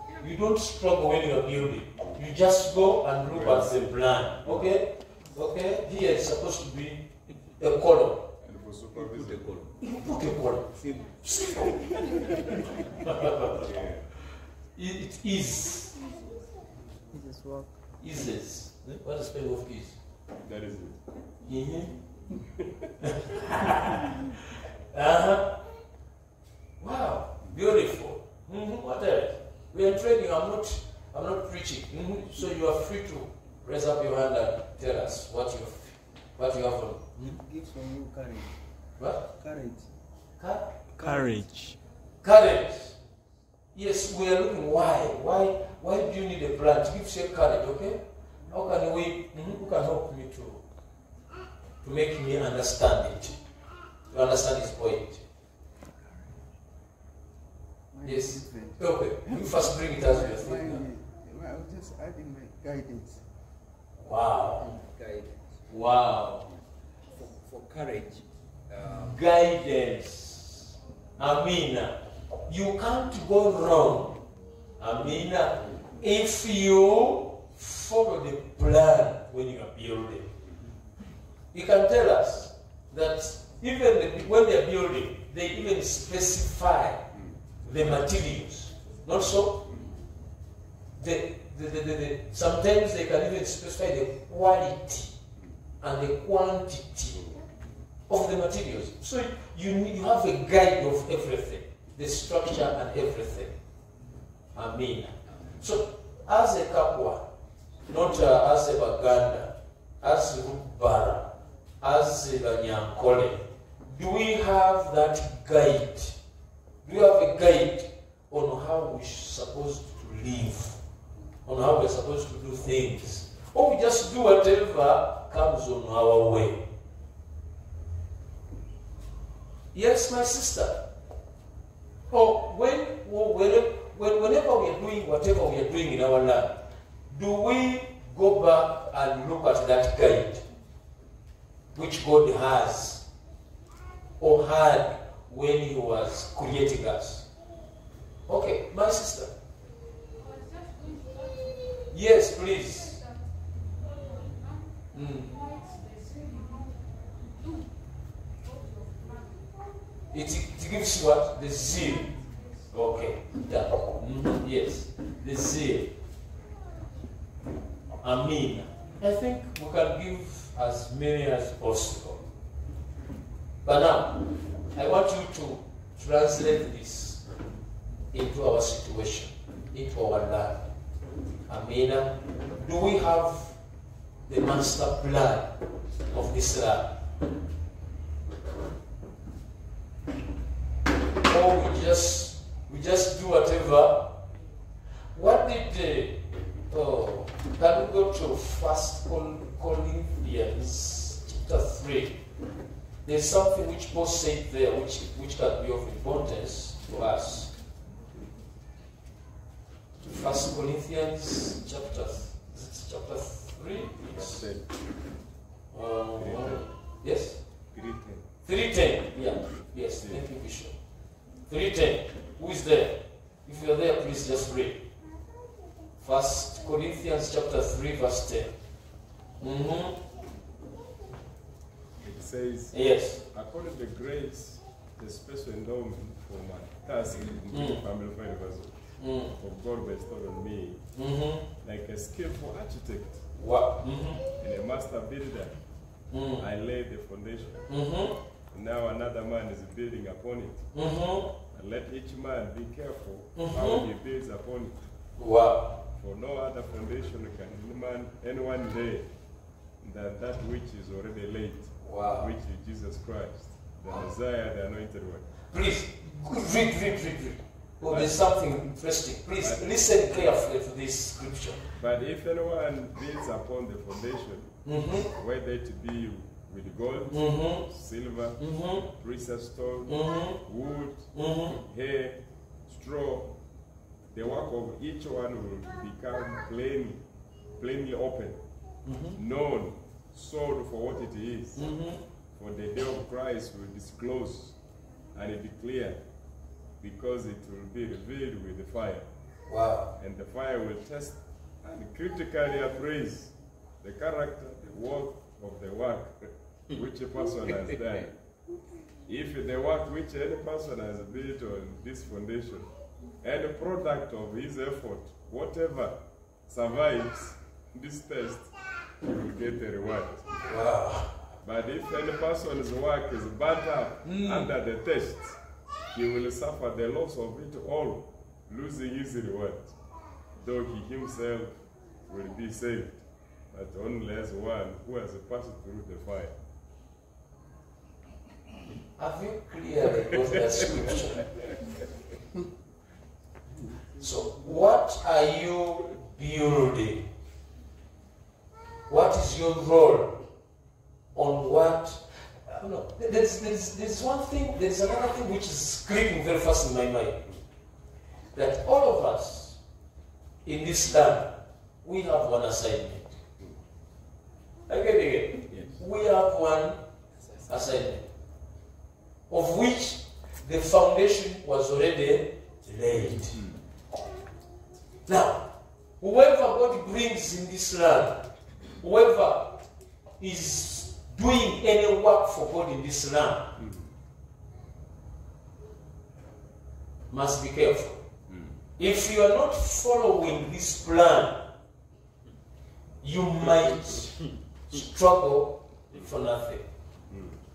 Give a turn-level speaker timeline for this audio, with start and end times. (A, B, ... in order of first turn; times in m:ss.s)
0:00.2-0:08.3 A
0:03.2-0:03.8 B
0:04.4-0:04.7 B
0:08.4-0:09.6 B
0:09.0-0:09.8 C
0:09.8-0:13.7 A
0:10.8-0:11.0 C
0:13.6-0:14.1 B
0:14.8-0:16.0 A
0:17.1-0:17.7 D
0:18.0-0:20.0 A
0:20.4-0:21.0 B
0:21.5-0:22.0 A
0:23.0-0:25.6 A
0:26.8-0:37.1 A
0:37.5-0:37.9 D
0:39.0-0:39.3 A
0:40.4-0:40.7 A
0:41.0-0:41.6 D
0:42.2-0:43.0 A
0:43.7-0:50.6 A
0:51.8-0:53.4 A
0:54.1-0:55.2 A
0:56.0-0:56.3 D
0:57.9-1:03.2 D
0:58.0-1:00.8 A
1:04.0-1:04.7 A
1:04.6-1:05.6 C
1:05.7-1:06.5 A
1:07.1-1:09.2 C
1:09.0-1:14.2 A
1:14.8-1:20.3 A
1:21.5-1:27.1 A
1:27.6-1:29.7 A
1:31.0-1:35.2 A
1:35.8-1:37.2 A
1:37.1-1:37.4 B
1:38.1-1:43.6 A
1:44.6-1:47.3 A
1:47.9-1:56.2 A
1:56.8-2:00.8 A
2:01.5-2:06.7 A
2:09.7-2:10.9 A
2:12.1-2:20.5 A
2:21.7-2:23.1 A
2:24.2-2:27.3 A
2:28.3-2:29.3 A
2:31.9-2:33.1 A
2:34.9-2:35.4 A
2:40.1-2:46.0 A
2:48.0-2:52.3 A
2:53.6-2:57.3 A
2:58.1-3:00.7 A
3:01.5-3:03.6 A
3:04.2-3:05.5 A
3:06.1-3:07.0 A
3:11.3-3:14.2 A
3:15.1-3:22.2 A
3:23.0-3:27.5 A
3:30.0-3:34.4 A
3:33.9-3:34.8 B
3:35.7-3:37.4 A
3:36.2-3:36.7 B
3:37.7-3:38.3 B
3:38.4-3:40.8 A
3:39.8-3:40.3 B
3:41.5-3:44.9 A
3:46.0-3:48.5 A
3:49.4-3:50.0 A
3:52.0-4:00.8 B
3:52.7-3:53.2 A
3:57.5-3:57.8 A
3:59.0-3:59.3 A
4:01.0-4:01.5 A
4:01.6-4:03.2 B
4:03.4-4:04.2 A
4:04.4-4:05.6 B
4:06.1-4:06.4 A
4:06.4-4:07.7 B
4:07.7-4:08.2 A
4:08.5-4:10.7 B
4:10.7-4:11.3 A
4:11.5-4:14.9 B
4:13.4-4:13.9 A
4:15.2-4:15.8 A
4:15.9-4:19.1 B
4:19.8-4:25.3 B
4:21.8-4:22.3 A
4:25.5-4:31.6 A
4:27.8-4:28.4 B
4:29.4-4:30.4 B
4:31.8-4:43.4 B
4:34.6-4:35.1 A
4:37.1-4:37.7 A
4:38.4-4:38.8 A
4:39.9-4:40.4 A
4:41.1-4:41.6 A
4:44.1-4:47.0 B
4:47.6-4:48.4 B
4:48.8-4:49.2 A
4:49.1-4:51.7 B
4:51.6-4:52.0 A
4:52.4-4:54.6 B
4:55.1-4:56.0 B
4:56.8-4:59.1 B
4:59.5-4:59.9 A
5:00.0-5:08.1 B
5:07.6-5:08.1 C
5:09.1-5:20.5 B
5:20.5-5:21.2 A
5:21.4-5:29.8 B
5:24.0-5:24.5 A
5:30.4-5:36.4 B
5:39.0-5:41.3 A
5:44.0-5:47.1 A
5:48.9-5:50.2 A
5:51.1-5:57.3 A
5:58.3-5:59.6 A
6:00.4-6:03.2 A
6:04.7-6:06.8 A
6:05.5-6:05.8 B
6:07.5-6:08.1 A
6:09.3-6:13.4 A
6:13.1-6:13.6 B
6:15.1-6:19.6 A
6:20.2-6:23.6 A
6:23.6-6:23.9 B
6:27.1-6:28.0 A
6:28.3-6:28.6 B
6:28.8-6:31.5 A
6:33.0-6:36.7 A
6:37.1-6:37.4 B